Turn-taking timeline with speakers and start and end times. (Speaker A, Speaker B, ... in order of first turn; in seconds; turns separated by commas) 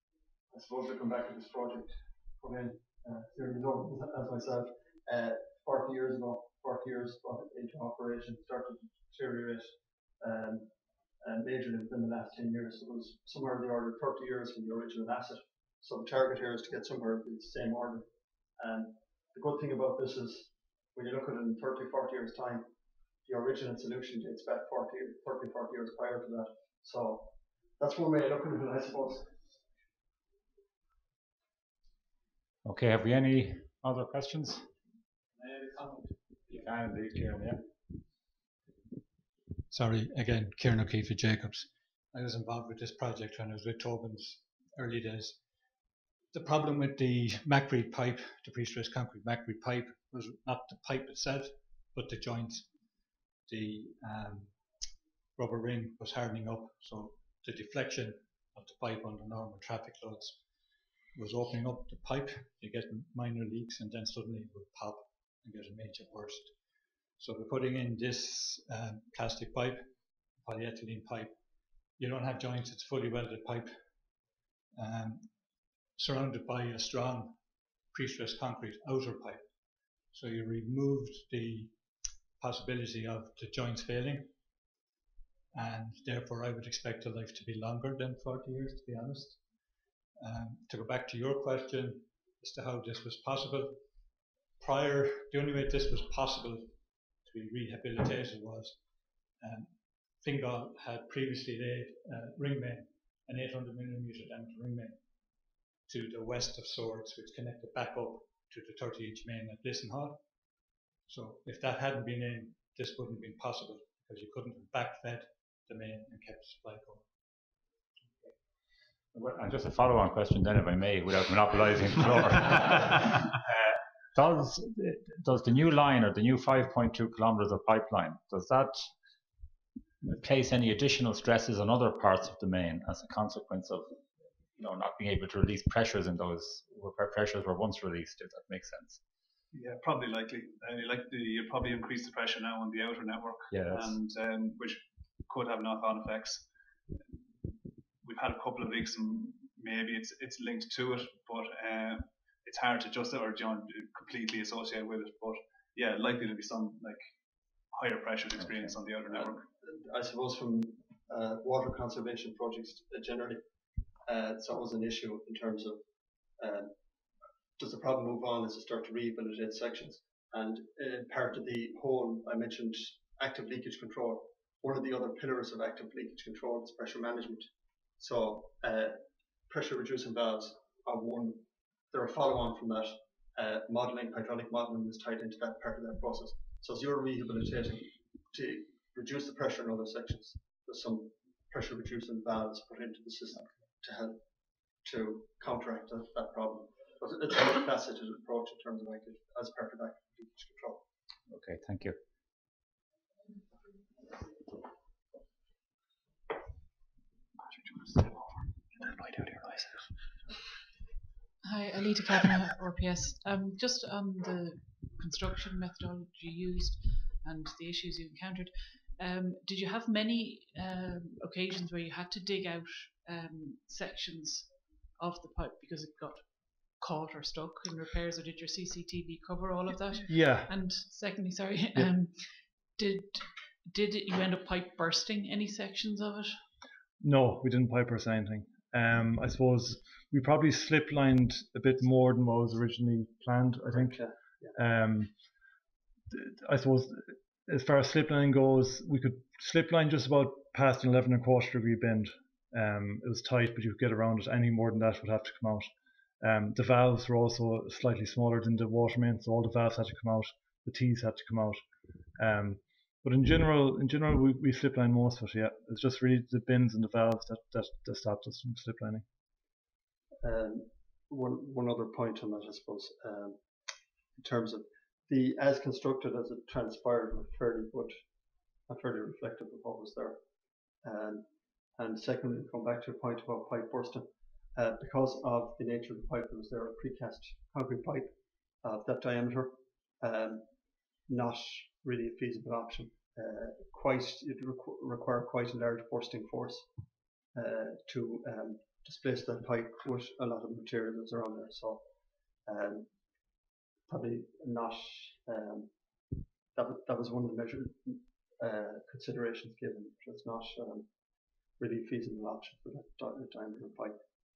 Speaker A: 0.5-10.7, Speaker A: 11.2-18.1, Speaker A: 18.6-22.7, Speaker A: 23.3-29.3, Speaker B: 32.7-34.6, Speaker B: 36.5-37.6, Speaker C: 39.7-45.4, Speaker C: 46.3-52.7, Speaker C: 53.5-54.6, Speaker C: 55.4-60.4, Speaker C: 61.1-66.5, Speaker C: 67.2-69.9, Speaker C: 70.4-71.4, Speaker C: 72.0-73.8, Speaker C: 74.8-75.3, Speaker C: 76.0-77.4, Speaker C: 77.9-79.5, Speaker C: 80.1-81.8, Speaker C: 82.4-84.3, Speaker C: 85.5-89.4, Speaker C: 90.2-93.8, Speaker C: 94.6-98.8, Speaker C: 99.4-105.0, Speaker C: 105.9-110.2, Speaker C: 111.1-117.1, Speaker B: 119.1-128.9, Speaker B: 130.1-133.9, Speaker B: 134.6-139.0, Speaker D: 139.5-146.5, Speaker B: 143.5-144.0, Speaker D: 148.0-157.0, Speaker D: 157.7-159.4, Speaker A: 159.1-163.4, Speaker A: 164.1-165.8, Speaker A: 166.4-166.7, Speaker A: 167.6-179.0, Speaker A: 179.5-194.2, Speaker A: 194.8-200.8, Speaker B: 201.3-202.0, Speaker E: 211.4-236.4, Speaker F: 230.1-230.5, Speaker F: 237.0-244.0, Speaker A: 243.7-244.5, Speaker F: 244.6-245.1, Speaker F: 246.1-261.6, Speaker F: 262.2-269.1, Speaker A: 270.2-273.4, Speaker A: 274.2-278.0, Speaker A: 278.7-280.2, Speaker A: 280.8-281.3, Speaker A: 281.8-288.1, Speaker A: 288.6-290.5, Speaker A: 291.1-296.7, Speaker A: 297.4-301.8, Speaker A: 302.5-302.9, Speaker A: 303.9-305.7, Speaker A: 306.6-310.9, Speaker A: 311.6-314.0